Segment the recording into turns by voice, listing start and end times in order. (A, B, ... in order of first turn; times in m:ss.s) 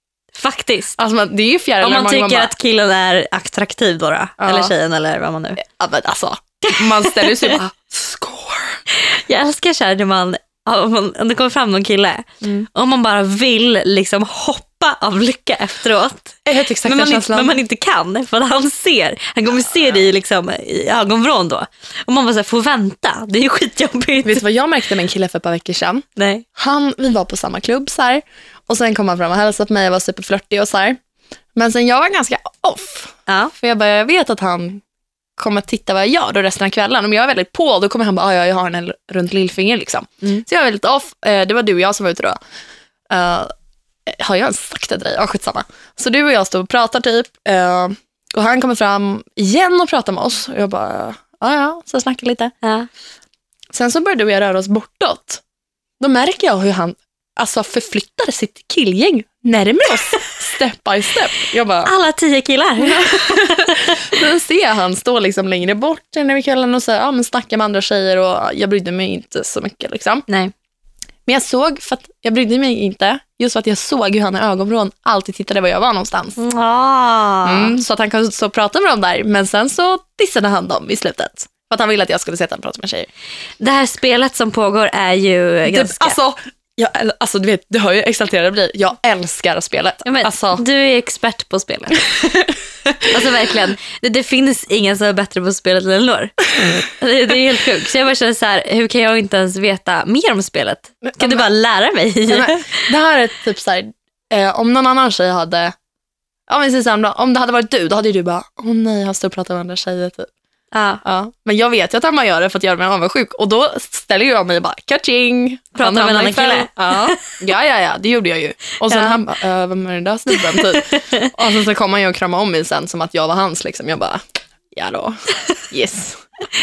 0:00.4-0:01.0 A
0:01.0-0:02.5 B
0:01.8-0:05.6 A
0:04.4-0:04.7 B
0:05.6-0:08.8 B
0:06.8-0:07.6 A
0:08.9-0:24.4 A
0:12.4-0:12.7 B
0:16.4-0:17.6 B
0:24.2-0:31.0 B
0:26.2-0:26.4 A
0:31.6-0:34.8 B
0:33.3-0:33.5 A
0:35.4-0:42.4 B
0:43.1-0:43.5 B
0:44.1-0:52.5 B
0:52.6-0:52.9 A
0:53.7-0:55.4 B
0:56.0-1:01.9 B
1:01.9-1:04.0 A
1:02.8-1:10.3 B
1:10.3-1:10.5 A
1:11.3-1:16.4 B
1:16.4-1:17.8 A
1:17.4-1:23.1 B
1:23.6-1:26.2 A
1:25.7-1:30.6 B
1:30.0-1:32.0 A
1:33.1-1:42.8 A
1:41.0-1:41.4 B
1:42.3-1:45.7 B
1:46.5-1:50.3 B
1:50.7-1:51.0 A
1:51.0-2:06.3 B
1:55.8-1:57.2 A
1:58.9-1:59.2 A
2:00.5-2:01.3 A